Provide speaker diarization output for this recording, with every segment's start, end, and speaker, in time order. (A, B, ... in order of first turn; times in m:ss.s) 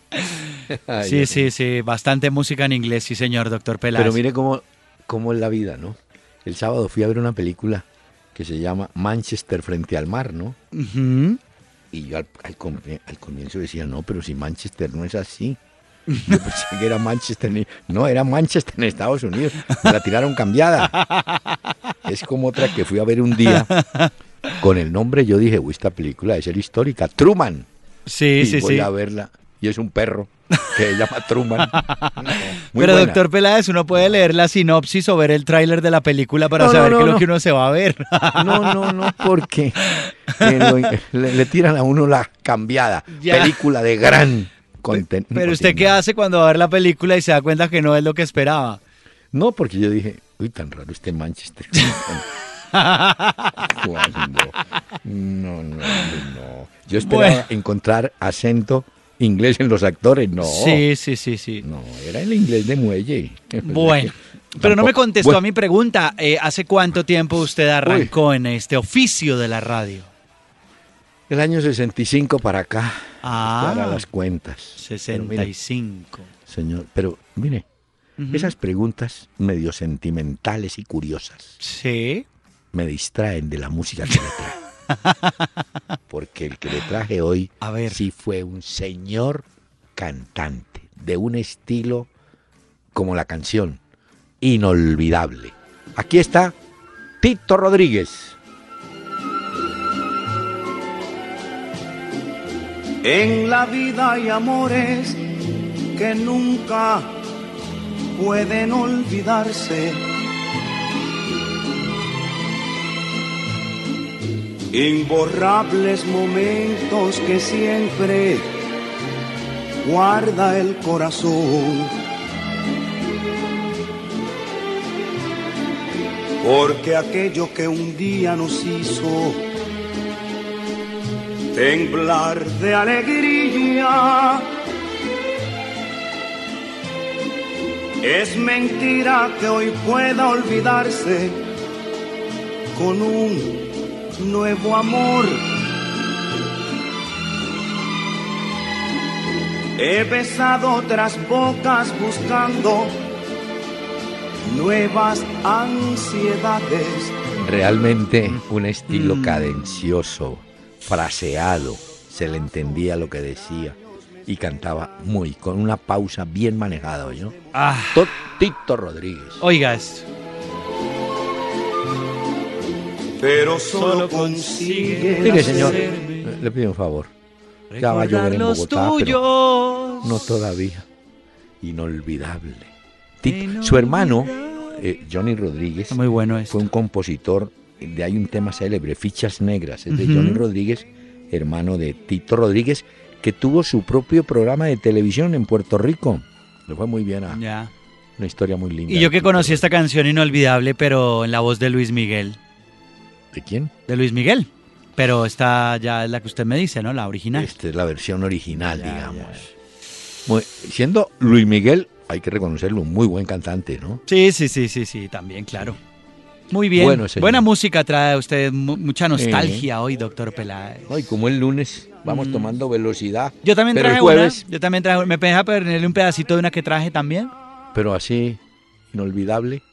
0:00.2-0:04.2 A
0:00.7-0:01.5 B
0:04.0-0:10.6 B
0:10.7-0:11.4 A
0:11.9-0:15.6 B
0:16.1-0:16.4 A
0:16.2-0:21.0 B
0:20.9-0:21.6 A
0:22.0-0:23.7 B
0:23.4-0:24.6 A
0:24.6-0:27.7 B
0:28.1-0:28.9 A
0:28.4-0:33.2 B
0:31.6-0:39.1 A
0:33.9-0:34.2 B
0:36.6-0:37.2 B
0:38.4-0:46.0 B
0:39.9-0:40.7 A
0:43.2-0:43.6 A
0:44.9-0:48.8 A
0:49.3-0:52.2 B
0:52.7-0:53.8 A
0:53.6-1:00.9 B
0:57.0-0:57.5 A
1:00.4-1:01.6 A
1:01.6-1:05.4 B
1:03.6-1:10.1 A
1:07.8-1:08.1 B
1:11.3-1:15.5 B
1:13.2-1:14.1 A
1:14.8-1:16.3 A
1:16.5-1:17.6 B
1:18.2-1:18.5 A
1:18.3-1:21.6 B
1:21.6-1:22.2 A
1:22.7-1:24.6 B
1:25.0-1:25.4 A
1:26.1-1:29.4 B
1:27.6-1:28.0 A
1:30.0-1:32.1 B
1:32.9-1:33.8 B
1:34.4-1:36.6 B
1:37.2-1:38.4 B
1:43.0-1:45.2 C
1:46.0-1:47.1 C
1:48.2-1:50.0 C
1:54.7-1:58.5 C
1:59.8-2:02.0 C
2:06.4-2:09.4 C
2:11.5-2:14.5 C
2:18.0-2:21.4 C
2:22.8-2:25.5 C
2:29.8-2:33.0 C
2:34.4-2:37.2 C
2:37.4-2:47.4 B
2:38.9-2:39.7 A
2:47.5-2:48.2 A
2:47.9-2:49.4 B
2:49.4-2:50.1 A
2:53.2-2:55.9 C
2:53.7-2:56.4 A
2:55.2-2:57.1 B
2:57.7-3:00.2 A
2:57.8-2:59.2 B
3:00.0-3:00.9 B
3:01.6-3:17.4 B
3:03.2-3:04.8 A
3:05.9-3:06.6 A
3:09.9-3:10.4 A
3:17.3-3:17.7 A
3:18.2-3:19.7 B
3:18.9-3:22.4 A
3:23.3-3:23.7 B
3:23.9-3:27.5 A
3:27.3-3:29.4 B
3:28.6-3:29.5 A
3:30.3-3:34.0 B
3:34.1-3:35.8 A
3:36.5-3:41.0 A
3:36.7-3:37.5 B
3:39.1-3:39.7 B
3:40.9-3:44.5 B
3:42.0-3:42.6 A
3:43.4-3:47.3 A
3:47.7-3:48.4 B
3:48.9-3:49.6 B